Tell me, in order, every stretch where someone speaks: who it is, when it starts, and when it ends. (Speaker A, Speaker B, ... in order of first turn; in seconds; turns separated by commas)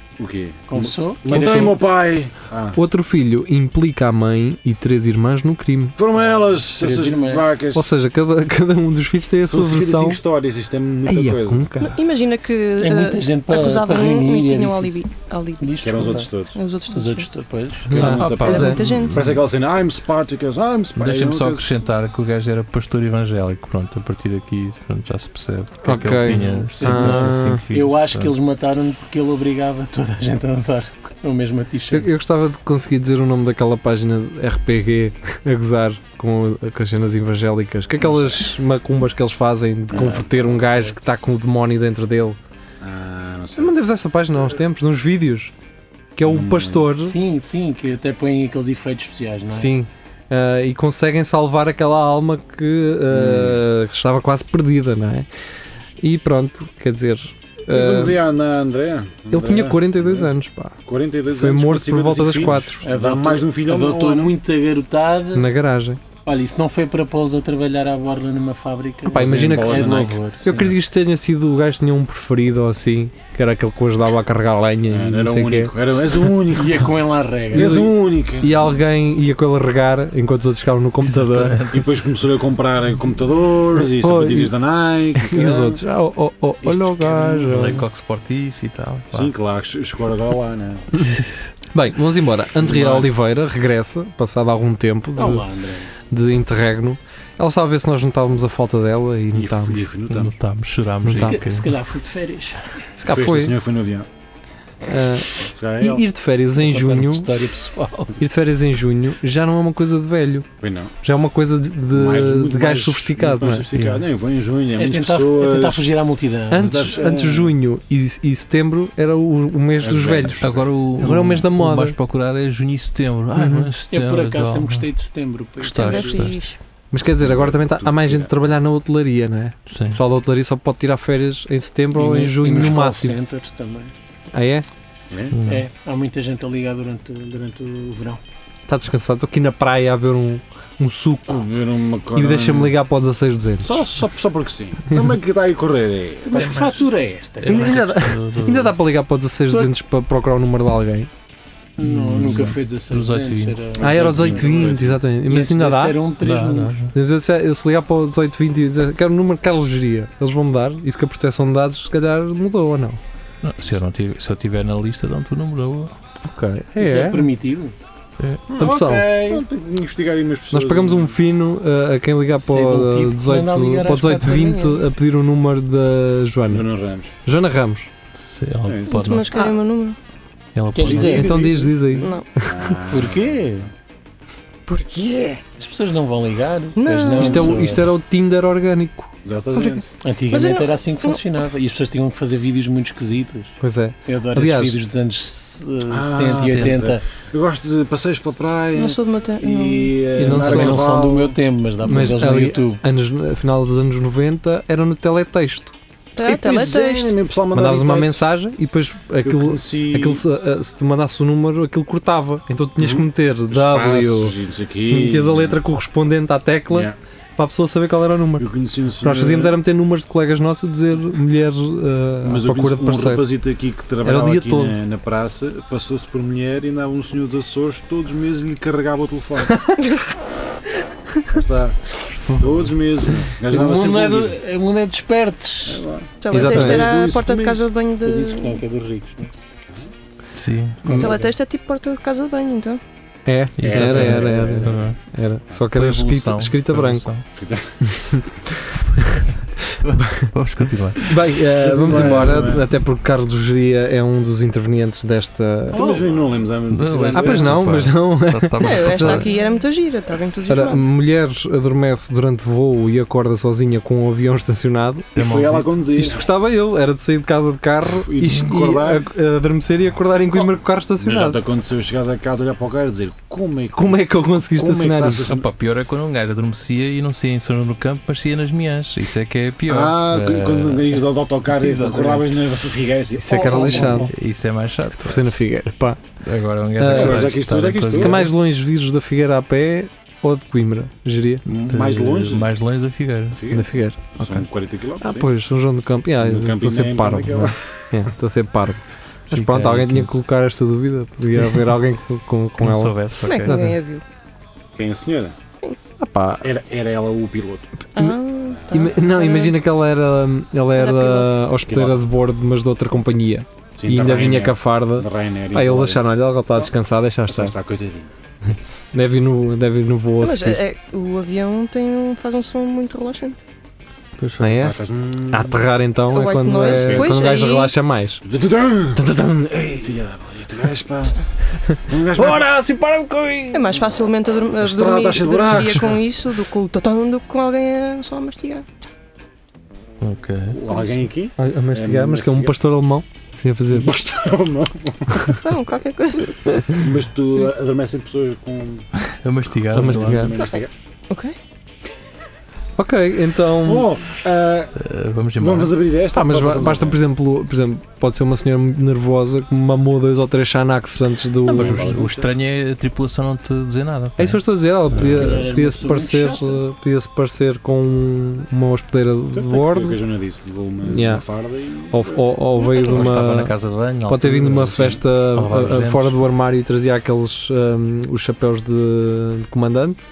Speaker A: 0.2-2.8, Speaker B: 0.7-1.8, Speaker C: 1.3-1.8, Speaker C: 2.8-6.0, Speaker A: 6.0-7.9, Speaker B: 6.8-7.4, Speaker C: 7.7-10.2, Speaker A: 9.4-11.7, Speaker C: 11.1-12.0, Speaker D: 11.8-17.3, Speaker B: 12.8-15.0, Speaker B: 15.6-16.3, Speaker A: 15.8-16.6, Speaker B: 16.9-18.2, Speaker A: 17.9-21.7, Speaker C: 17.9-18.8, Speaker D: 18.2-19.2, Speaker E: 18.2-19.3, Speaker E: 21.0-28.3, Speaker C: 25.8-27.6, Speaker B: 26.3-32.1, Speaker C: 31.9-42.4, Speaker A: 38.0-38.5, Speaker A: 39.9-40.3, Speaker B: 39.9-41.0, Speaker A: 42.8-43.8, Speaker C: 43.6-45.5, Speaker C: 46.2-47.2, Speaker A: 46.2-46.9, Speaker B: 47.0-49.8, Speaker C: 49.5-55.3, Speaker A: 53.1-53.6, Speaker C: 56.0-58.2, Speaker A: 57.7-60.3, Speaker C: 59.3-60.8, Speaker A: 60.9-64.4, Speaker C: 61.3-62.8, Speaker B: 62.8-65.5, Speaker C: 65.3-66.0, Speaker B: 66.2-70.8, Speaker C: 69.1-75.7, Speaker A: 69.2-70.2, Speaker A: 74.9-77.0, Speaker B: 76.5-77.9, Speaker A: 77.5-78.8, Speaker C: 77.5-77.9, Speaker C: 78.4-81.6, Speaker E: 81.0-81.9, Speaker A: 81.7-85.8, Speaker C: 83.8-84.5, Speaker C: 85.2-87.8, Speaker A: 86.6-87.6, Speaker E: 87.5-89.3, Speaker A: 89.1-90.9, Speaker C: 91.7-95.5, Speaker A: 92.6-93.1, Speaker B: 95.2-95.9, Speaker C: 96.1-99.9, Speaker A: 99.3-100.3, Speaker E: 100.1-101.7, Speaker C: 101.0-101.4, Speaker B: 101.2-102.8, Speaker C: 103.0-103.6, Speaker A: 103.1-104.1, Speaker C: 104.9-107.3, Speaker A: 105.4-106.0, Speaker B: 106.5-108.2, Speaker C: 108.2-110.5, Speaker A: 110.6-110.9, Speaker C: 111.0-113.7, Speaker A: 111.9-115.9, Speaker E: 113.7-114.0, Speaker B: 114.8-117.5, Speaker C: 116.5-120.5, Speaker A: 116.9-117.4, Speaker A: 119.8-120.7, Speaker E: 120.4-124.9, Speaker C: 121.0-122.0, Speaker C: 123.3-123.7, Speaker B: 123.9-126.3, Speaker E: 125.6-126.4, Speaker D: 125.7-126.6, Speaker C: 126.9-133.2, Speaker A: 127.0-128.6, Speaker E: 129.7-130.0, Speaker B: 131.9-133.9, Speaker C: 134.3-134.7, Speaker A: 135.1-135.3, Speaker E: 135.3-135.7, Speaker B: 135.5-138.2, Speaker C: 138.7-141.5, Speaker A: 141.3-142.8, Speaker C: 142.1-143.8, Speaker A: 143.6-146.9, Speaker B: 146.2-147.8, Speaker E: 147.4-148.8, Speaker C: 147.5-151.1, Speaker B: 151.8-154.7, Speaker E: 151.8-153.7, Speaker A: 153.8-155.1, Speaker C: 153.8-156.0, Speaker B: 155.3-156.8, Speaker E: 156.2-156.9, Speaker C: 156.9-163.0, Speaker E: 163.4-165.9, Speaker C: 166.2-167.3, Speaker B: 166.8-167.7, Speaker E: 168.2-168.4, Speaker A: 168.5-171.2, Speaker C: 168.6-169.1, Speaker B: 168.6-169.4, Speaker C: 170.5-176.7, Speaker B: 172.4-174.8, Speaker A: 176.5-177.1, Speaker C: 177.2-177.9, Speaker E: 178.2-179.5, Speaker A: 178.6-178.9, Speaker D: 178.9-180.0, Speaker E: 180.5-181.3, Speaker B: 180.7-181.4, Speaker A: 180.8-183.7, Speaker C: 181.0-182.7, Speaker D: 182.0-182.3, Speaker B: 182.9-183.7, Speaker B: 184.7-187.9, Speaker D: 186.8-187.7, Speaker C: 187.2-189.1, Speaker A: 189.2-189.8, Speaker D: 189.5-191.2, Speaker B: 190.0-197.1, Speaker C: 193.6-194.8, Speaker A: 195.9-201.4, Speaker E: 196.4-197.0, Speaker D: 198.8-199.9, Speaker C: 200.2-200.8, Speaker B: 200.2-202.8, Speaker C: 201.8-205.7, Speaker D: 206.2-207.2, Speaker A: 206.2-208.2, Speaker C: 207.5-214.3, Speaker A: 209.2-210.2, Speaker A: 212.8-215.6, Speaker C: 214.9-218.5, Speaker A: 216.7-217.0, Speaker A: 218.4-219.6, Speaker C: 219.0-223.3, Speaker A: 222.2-229.6, Speaker C: 224.0-224.8, Speaker A: 231.3-234.4, Speaker E: 232.2-233.3, Speaker B: 233.5-235.8, Speaker A: 235.7-237.7, Speaker D: 236.2-238.6, Speaker C: 236.3-236.9, Speaker B: 238.0-239.3, Speaker E: 240.3-240.9, Speaker B: 240.8-241.3, Speaker C: 240.9-241.2, Speaker D: 240.9-242.8, Speaker C: 243.3-247.1, Speaker E: 243.6-245.0, Speaker A: 243.6-244.8, Speaker B: 244.0-244.7, Speaker E: 245.7-247.2, Speaker A: 247.3-247.8, Speaker C: 247.9-248.6, Speaker E: 248.9-251.1, Speaker C: 251.1-255.8, Speaker A: 251.6-252.7, Speaker A: 255.7-257.7, Speaker B: 255.7-256.1, Speaker E: 256.7-259.3, Speaker C: 257.1-259.3, Speaker D: 258.6-260.9, Speaker C: 260.5-265.1, Speaker E: 265.1-265.7, Speaker A: 265.1-266.2, Speaker C: 266.0-271.4, Speaker A: 267.9-269.1, Speaker A: 270.3-275.5, Speaker C: 273.8-275.3, Speaker E: 275.2-281.0, Speaker A: 279.7-284.1, Speaker E: 281.5-282.3, Speaker C: 283.1-284.1, Speaker E: 284.1-285.2, Speaker C: 285.0-286.0, Speaker E: 286.2-288.3, Speaker C: 286.8-287.3, Speaker A: 286.8-288.3, Speaker C: 287.9-291.4, Speaker A: 291.5-292.5, Speaker E: 291.7-293.4, Speaker A: 293.3-295.3, Speaker C: 293.5-294.4, Speaker C: 295.0-303.7, Speaker A: 296.2-297.7, Speaker E: 299.3-300.2, Speaker E: 302.6-303.8, Speaker D: 303.2-304.0, Speaker A: 304.8-305.4, Speaker C: 306.0-306.5, Speaker A: 306.4-307.7, Speaker D: 308.0-309.6, Speaker C: 308.7-317.6, Speaker D: 310.8-311.5, Speaker A: 311.7-312.0, Speaker A: 313.8-316.7, Speaker A: 317.3-318.1, Speaker C: 318.9-320.6, Speaker D: 320.2-323.4, Speaker E: 324.2-324.6, Speaker C: 324.4-324.8, Speaker A: 324.5-325.6, Speaker C: 325.3-328.2, Speaker D: 326.1-327.7, Speaker A: 326.6-327.1, Speaker A: 328.2-329.1, Speaker C: 328.9-329.9, Speaker A: 329.7-331.2, Speaker C: 331.7-333.8, Speaker A: 331.9-332.5, Speaker D: 333.5-338.7, Speaker A: 334.6-336.0, Speaker C: 335.6-335.8, Speaker E: 340.0-340.6, Speaker A: 340.5-342.6, Speaker C: 341.4-343.9, Speaker A: 343.7-345.4, Speaker D: 345.4-346.5, Speaker C: 346.5-346.8, Speaker A: 346.8-348.9, Speaker E: 349.0-350.3, Speaker A: 349.5-350.7, Speaker C: 349.7-350.4, Speaker D: 350.4-351.4, Speaker C: 352.8-354.0, Speaker A: 353.6-354.7, Speaker E: 354.8-355.8, Speaker A: 355.4-357.0, Speaker C: 356.1-362.0, Speaker E: 361.5-365.5, Speaker A: 361.5-362.3, Speaker C: 364.2-370.0, Speaker B: 364.9-366.6, Speaker A: 369.3-372.4, Speaker C: 370.8-371.2, Speaker C: 371.9-373.5, Speaker D: 372.6-373.0, Speaker E: 372.8-376.2, Speaker C: 374.1-380.0, Speaker A: 374.5-375.0